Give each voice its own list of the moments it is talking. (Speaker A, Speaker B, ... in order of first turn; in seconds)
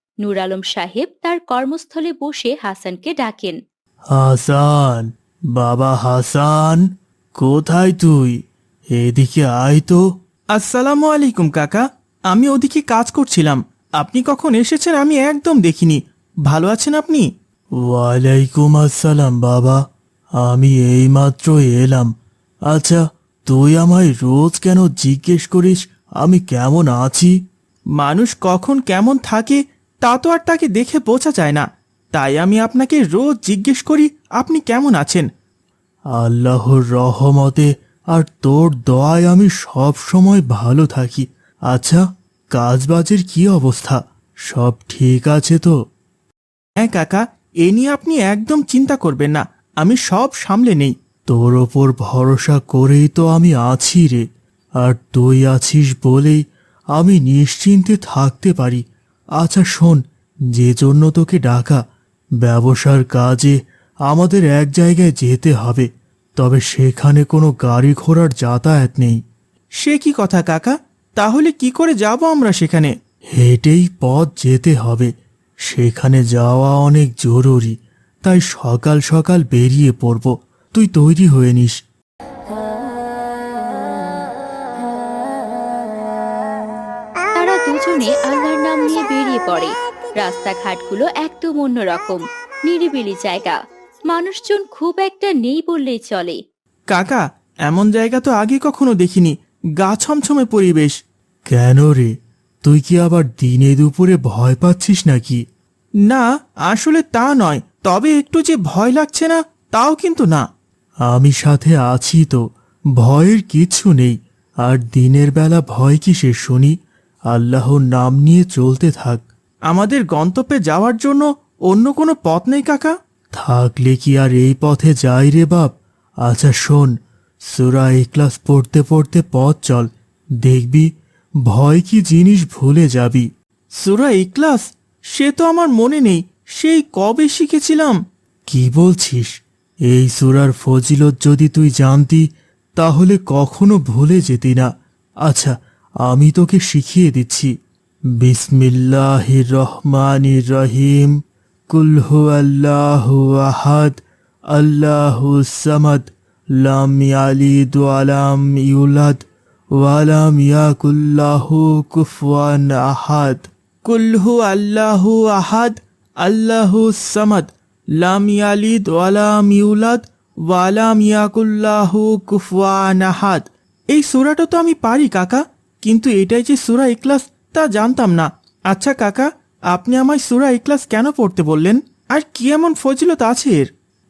Speaker A: 0.2-3.6, 87.3-93.6, 94.1-96.4
Speaker B: 4.1-6.8, 7.4-8.4, 8.9-10.0, 17.8-19.8, 20.4-22.1, 22.7-27.3, 36.1-45.8, 51.3-54.3, 54.8-56.4, 57.0-58.8, 59.4-60.0, 60.5-61.8, 62.4-69.2, 73.4-75.1, 75.7-81.8, 101.5-102.1, 102.6-105.4, 111.1-112.4, 113.0-116.8, 117.3-119.2, 123.3-126.9, 127.5-129.9, 130.4-130.9, 131.5-133.3, 138.5-139.3, 139.9-142.3, 142.8-144.7, 145.2-145.5, 146.1-147.5, 148.2-151.1, 151.7-154.0, 154.5-159.2, 159.8-163.5
Speaker C: 10.6-17.3, 28.0-35.3, 46.8-51.0, 69.8-72.9, 96.9-101.0, 106.1-110.4, 119.7-122.9, 133.8-138.0, 163.8-183.7